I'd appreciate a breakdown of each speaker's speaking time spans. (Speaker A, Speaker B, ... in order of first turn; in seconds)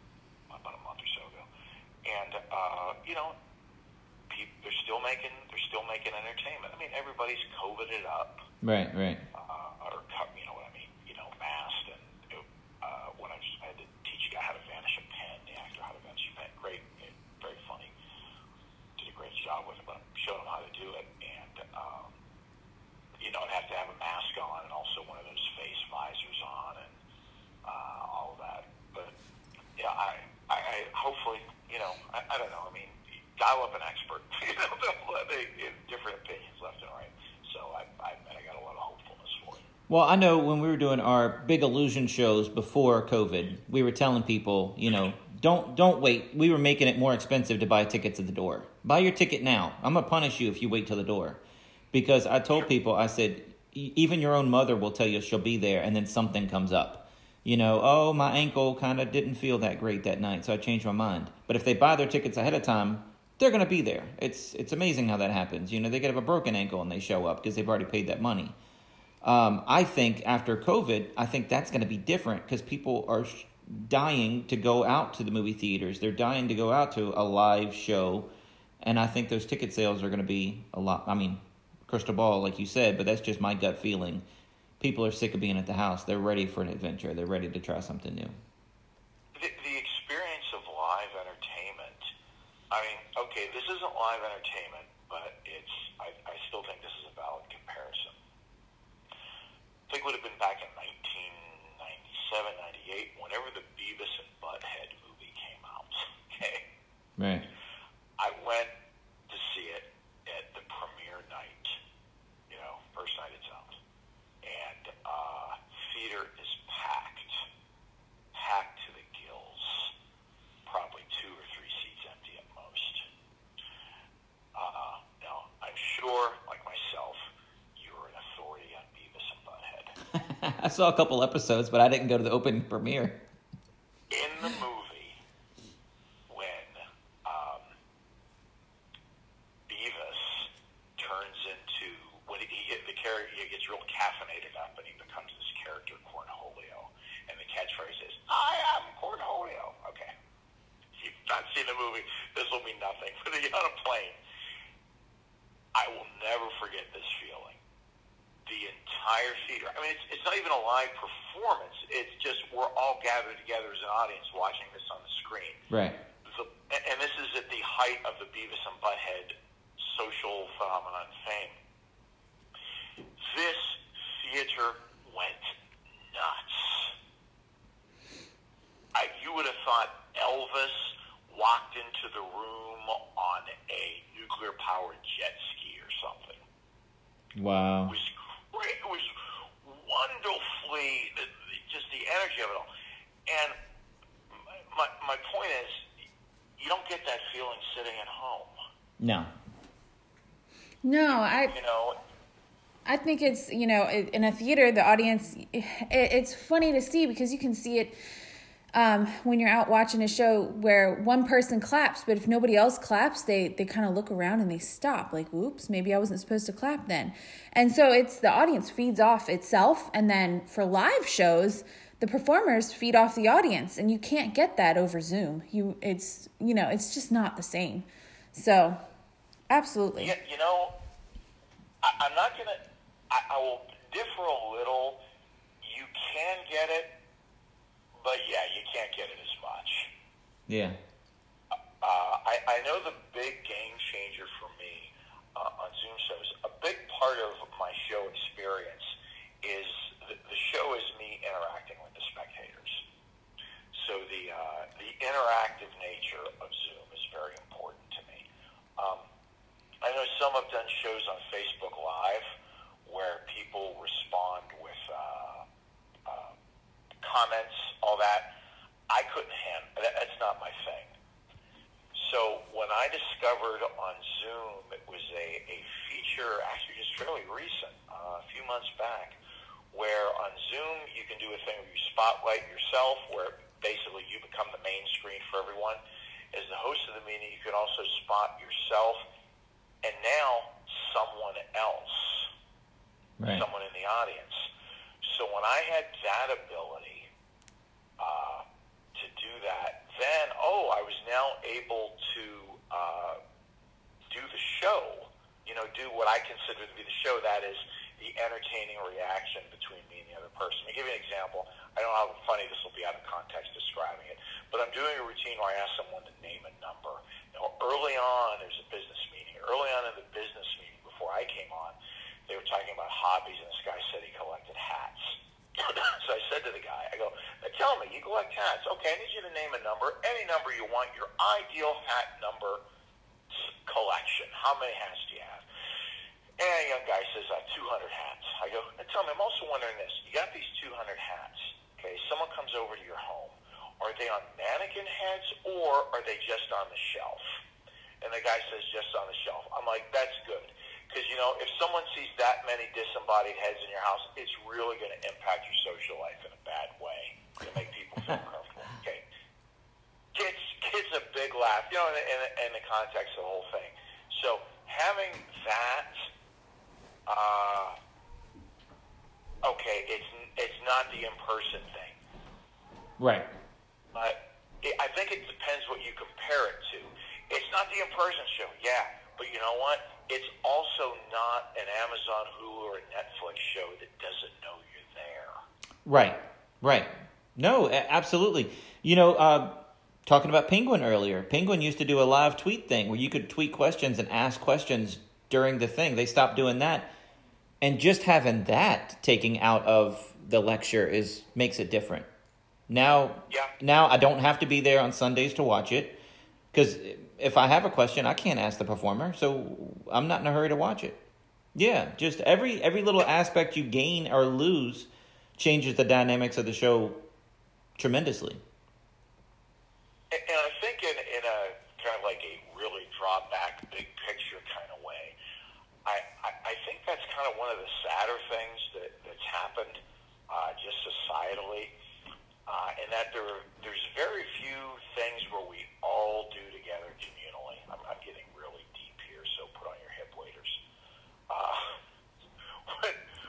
Speaker A: 0.5-1.5, 2.0-3.4, 4.3-8.4, 9.3-17.9, 19.0-22.1, 23.2-26.9, 27.6-29.1, 29.8-39.6, 89.3-92.0, 92.7-98.2, 99.9-106.6, 108.2-108.7, 109.3-111.8, 112.5-113.8, 114.4-117.4, 118.3-119.9, 120.7-123.0, 124.5-129.9, 134.1-135.2, 136.3-137.7, 139.7-150.1, 150.9-154.2, 155.7-157.6, 158.4-165.6, 166.2-171.6, 173.2-175.5, 176.1-176.9, 178.9-186.4, 187.8-192.7, 193.3-193.6, 194.3-195.8, 196.6-198.5, 201.1-202.0, 230.0-230.7, 231.8-235.0, 235.6-236.9, 238.0-239.9, 241.5-252.8, 253.7-258.2, 258.8-259.0, 259.8-262.3, 262.9-265.4, 266.1-266.3, 267.0-268.3, 268.9-270.9, 271.9-279.2, 279.7-285.8, 286.3-289.0, 289.8-292.3, 293.2-294.4, 295.0-297.1, 298.0-303.2, 304.1-321.8, 322.3-332.6, 333.3-335.4, 336.4-347.2, 348.0-359.0, 360.1-366.1, 367.1-367.8, 369.4-372.0, 373.9-385.4, 420.1-425.1, 425.8-431.7, 432.5-440.6, 441.3-441.8, 442.7-442.9
Speaker B: 8.6-9.2, 39.9-51.4, 51.9-68.5, 69.2-78.3, 78.8-84.2, 84.8-88.4, 107.2-107.5, 130.1-133.2, 165.7-166.0, 187.3-187.9, 199.0-199.3, 240.5-240.8, 293.2-293.4, 373.0-373.3, 385.8-396.9, 397.6-402.1, 402.7-406.0, 406.5-411.0, 411.5-417.0, 417.8-418.4
Speaker C: 200.8-201.5, 202.8-208.0, 208.7-228.8, 229.5-230.1